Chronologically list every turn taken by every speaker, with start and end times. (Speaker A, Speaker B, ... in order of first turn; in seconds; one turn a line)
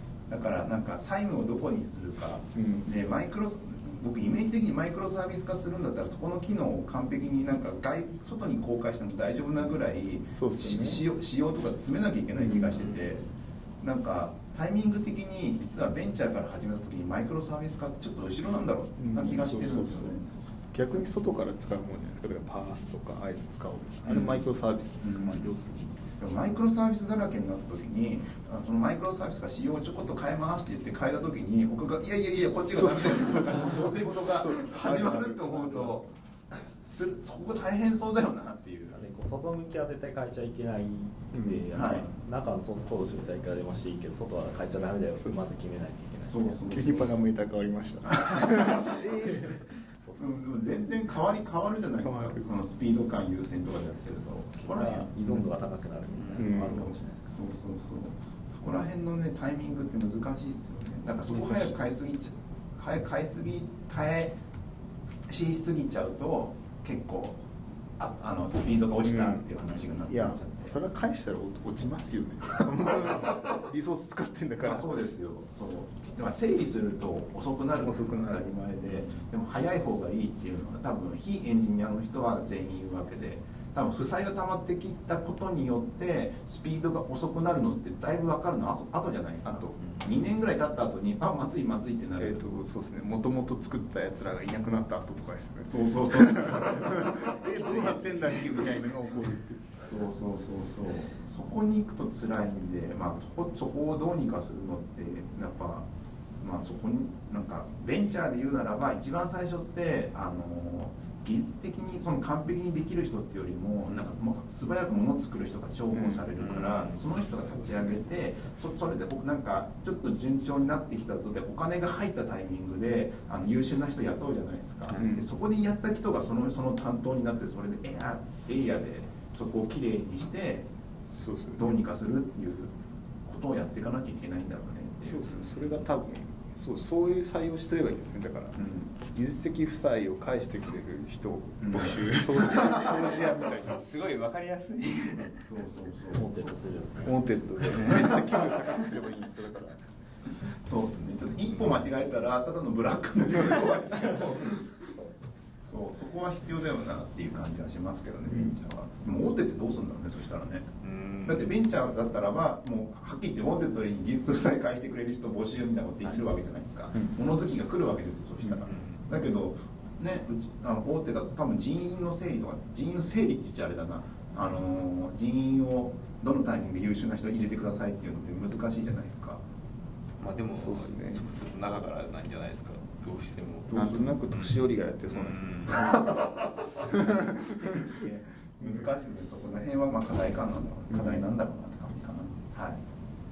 Speaker A: 0.3-13.2
Speaker B: 2.5-2.9
Speaker B: 10.3-11.0
Speaker B: 12.4-12.9
Speaker A: 13.8-20.3
Speaker B: 19.0-26.1
Speaker A: 24.1-24.4
Speaker A: 25.0-25.5
Speaker A: 26.2-39.0
Speaker B: 32.7-36.0
Speaker C: 38.9-46.4
Speaker B: 41.3-41.7
Speaker D: 41.6-42.2
Speaker A: 41.7-42.1
Speaker B: 45.2-45.5
Speaker A: 46.2-47.2
Speaker B: 46.7-49.5
Speaker A: 48.3-48.7
Speaker C: 49.1-50.2
Speaker A: 50.2-55.4
Speaker B: 52.0-52.5
Speaker C: 54.6-57.4
Speaker A: 56.2-64.3
Speaker D: 56.4-57.0
Speaker B: 56.4-56.9
Speaker B: 61.3-61.7
Speaker A: 65.3-67.4
Speaker A: 68.0-70.8
Speaker B: 69.0-69.5
Speaker B: 70.0-74.9
Speaker A: 74.6-92.4
Speaker B: 77.8-78.5
Speaker B: 92.2-99.8
Speaker A: 95.7-98.9
Speaker A: 99.8-105.9
Speaker A: 106.4-130.7
Speaker B: 116.0-116.2
Speaker D: 116.4-117.0
Speaker B: 117.7-118.0
Speaker B: 125.0-125.2
Speaker B: 131.2-131.8
Speaker A: 131.6-132.7
Speaker A: 133.3-135.3
Speaker B: 135.0-143.9
Speaker A: 138.6-138.9
Speaker A: 141.6-142.1
Speaker D: 141.7-142.9
Speaker C: 142.7-143.0
Speaker D: 143.7-145.5
Speaker A: 145.5-146.6
Speaker C: 146.3-147.2
Speaker B: 147.0-149.8
Speaker A: 150.4-154.9
Speaker C: 153.9-155.3
Speaker A: 155.6-160.7
Speaker D: 160.8-161.4
Speaker A: 161.2-179.4
Speaker D: 180.2-183.7
Speaker B: 180.6-181.3
Speaker B: 183.7-186.2
Speaker D: 184.3-184.6
Speaker C: 185.2-186.0
Speaker D: 185.3-185.7
Speaker A: 185.7-192.8
Speaker B: 186.8-188.9
Speaker B: 190.9-191.3